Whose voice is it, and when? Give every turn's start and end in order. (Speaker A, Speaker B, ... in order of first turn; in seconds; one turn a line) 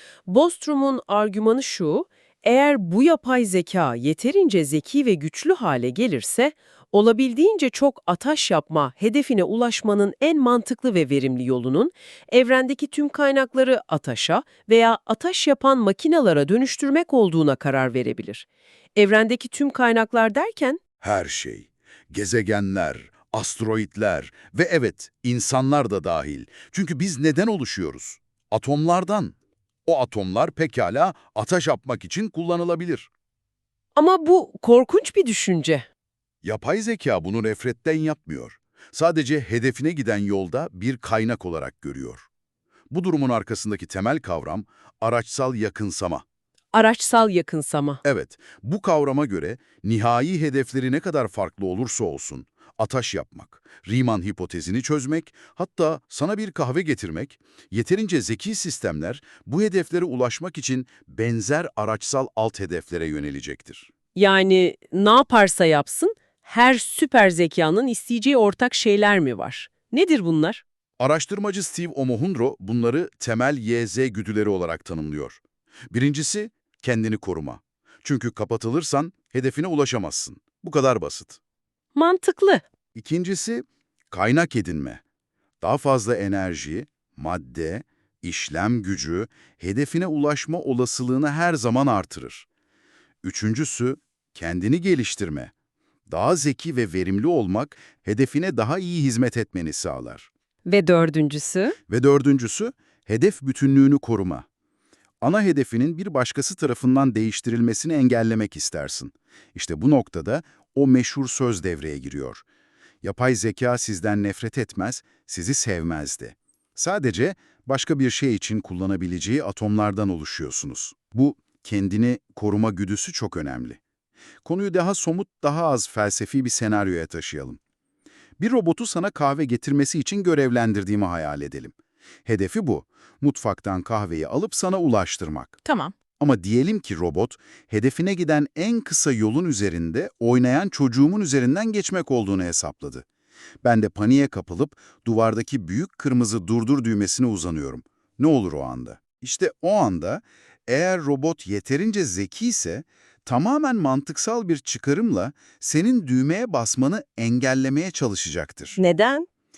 Speaker A: 0.3-20.8
Speaker B: 21.0-29.3
Speaker B: 29.9-33.1
Speaker A: 33.9-35.9
Speaker B: 36.4-42.2
Speaker B: 42.9-46.2
Speaker A: 46.7-48.0
Speaker B: 48.0-63.9
Speaker A: 64.1-70.6
Speaker B: 71.0-81.4
Speaker A: 81.9-82.6
Speaker B: 82.9-85.0
Speaker B: 85.6-92.5
Speaker B: 93.2-95.5
Speaker B: 96.1-100.3
Speaker A: 100.7-101.8
Speaker B: 101.9-104.4
Speaker B: 105.2-112.4
Speaker B: 113.0-123.8
Speaker B: 124.4-127.6
Speaker B: 128.4-135.6
Speaker B: 136.2-143.1
Speaker B: 143.6-158.8
Speaker A: 158.8-159.2